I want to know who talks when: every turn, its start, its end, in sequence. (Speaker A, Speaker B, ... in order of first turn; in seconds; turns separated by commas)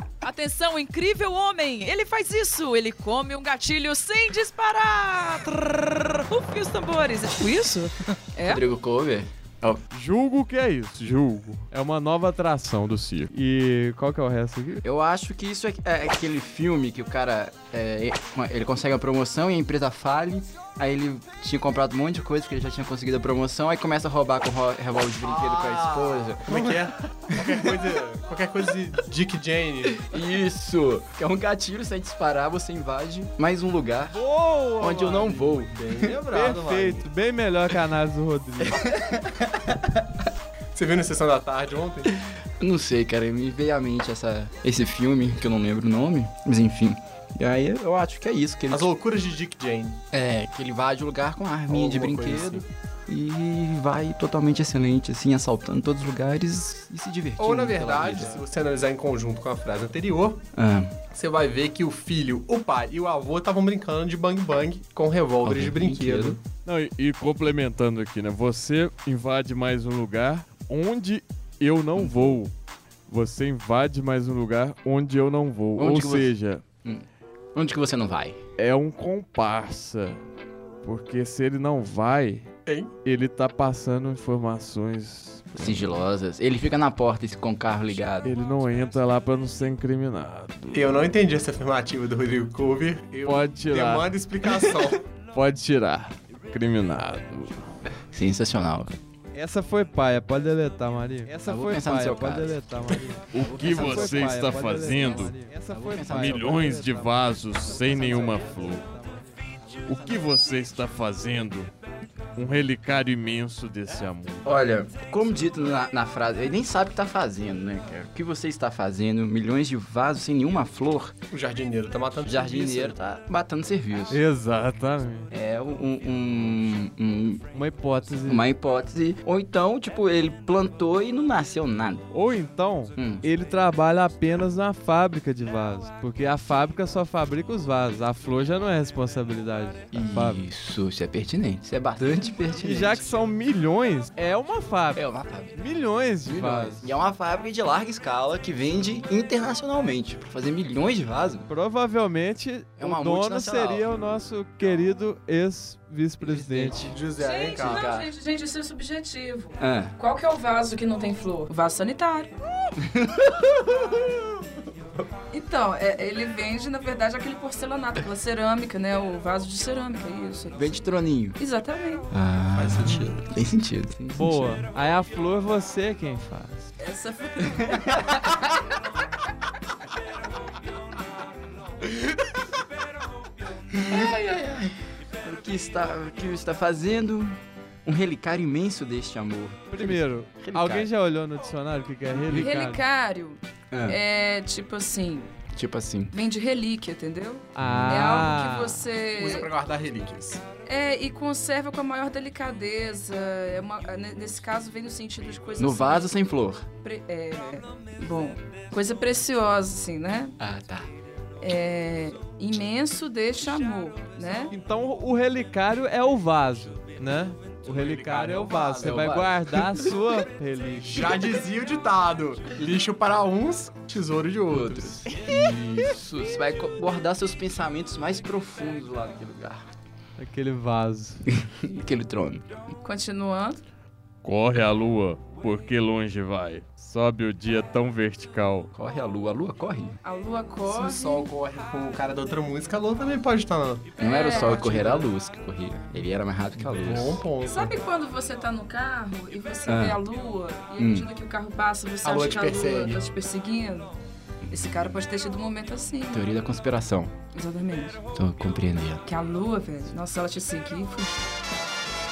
Speaker A: 0.2-8.6, Speaker B: 8.4-9.8, Speaker C: 9.9-13.3, Speaker D: 11.7-12.5, Speaker D: 13.3-14.8, Speaker B: 14.8-26.5, Speaker E: 25.2-30.0, Speaker D: 26.5-26.8, Speaker B: 30.0-34.2, Speaker D: 34.1-35.5, Speaker B: 34.8-36.2, Speaker E: 35.1-37.1, Speaker D: 36.2-38.8, Speaker B: 38.7-40.1, Speaker E: 40.8-42.1, Speaker B: 42.6-48.9, Speaker E: 48.7-50.0, Speaker B: 50.1-58.4, Speaker E: 51.7-52.6, Speaker E: 57.4-60.4, Speaker B: 60.5-61.0, Speaker E: 61.1-66.4, Speaker B: 65.4-66.4, Speaker C: 66.7-72.5, Speaker B: 72.0-72.4, Speaker C: 73.1-76.6, Speaker B: 75.8-76.3, Speaker B: 76.8-78.4, Speaker C: 78.6-80.2, Speaker C: 80.8-82.5, Speaker C: 83.0-86.0, Speaker B: 85.6-88.3, Speaker C: 88.2-91.1, Speaker E: 90.7-95.0, Speaker C: 93.2-94.1, Speaker C: 95.3-97.6, Speaker B: 98.1-99.0, Speaker D: 99.3-109.2, Speaker B: 101.4-102.7, Speaker C: 103.3-105.3, Speaker B: 103.4-104.4, Speaker B: 105.7-106.8, Speaker C: 106.1-108.9, Speaker C: 109.9-111.7, Speaker C: 112.4-114.5, Speaker B: 114.4-121.2, Speaker E: 121.3-123.0, Speaker B: 122.2-124.2, Speaker C: 124.1-124.9, Speaker D: 124.3-125.3, Speaker B: 125.3-127.5, Speaker D: 127.5-128.4, Speaker B: 128.2-132.1, Speaker D: 132.1-140.4, Speaker B: 133.0-133.2, Speaker B: 139.9-143.2, Speaker D: 142.6-145.0, Speaker B: 144.9-145.6, Speaker D: 145.6-146.9, Speaker B: 146.2-151.5, Speaker D: 151.5-156.9, Speaker B: 152.8-153.9, Speaker B: 156.2-156.9, Speaker E: 156.8-157.9, Speaker A: 157.2-162.3, Speaker B: 157.6-158.1, Speaker B: 159.6-159.9, Speaker B: 162.8-164.3, Speaker A: 165.3-172.1, Speaker B: 170.5-171.4, Speaker B: 172.1-174.6, Speaker E: 172.6-173.2, Speaker D: 174.1-176.7, Speaker A: 176.8-178.3, Speaker B: 183.7-190.9, Speaker D: 189.7-192.8, Speaker B: 192.2-192.5, Speaker A: 192.3-195.3, Speaker B: 193.7-194.0, Speaker B: 195.5-196.1, Speaker A: 196.1-199.5, Speaker D: 197.6-198.8, Speaker B: 197.6-198.0, Speaker E: 199.2-200.4, Speaker A: 200.7-206.1, Speaker B: 205.6-206.7, Speaker A: 206.8-210.4, Speaker B: 210.4-210.9, Speaker A: 211.4-214.5, Speaker D: 214.5-221.2, Speaker E: 217.7-219.1, Speaker B: 218.7-219.6, Speaker E: 220.8-225.2, Speaker B: 224.5-229.6, Speaker D: 230.2-231.3, Speaker B: 231.3-232.5, Speaker A: 232.8-233.6, Speaker C: 234.2-238.7, Speaker B: 238.7-240.0, Speaker A: 240.0-241.3, Speaker E: 240.7-244.8, Speaker A: 244.0-245.1, Speaker B: 244.0-247.2, Speaker E: 246.7-247.8, Speaker A: 247.4-253.9, Speaker B: 249.7-250.0, Speaker B: 250.8-251.1, Speaker E: 252.0-253.0, Speaker B: 254.5-254.9, Speaker A: 254.5-256.3, Speaker B: 256.1-257.1, Speaker A: 257.3-258.0, Speaker B: 258.1-259.0, Speaker A: 259.1-261.2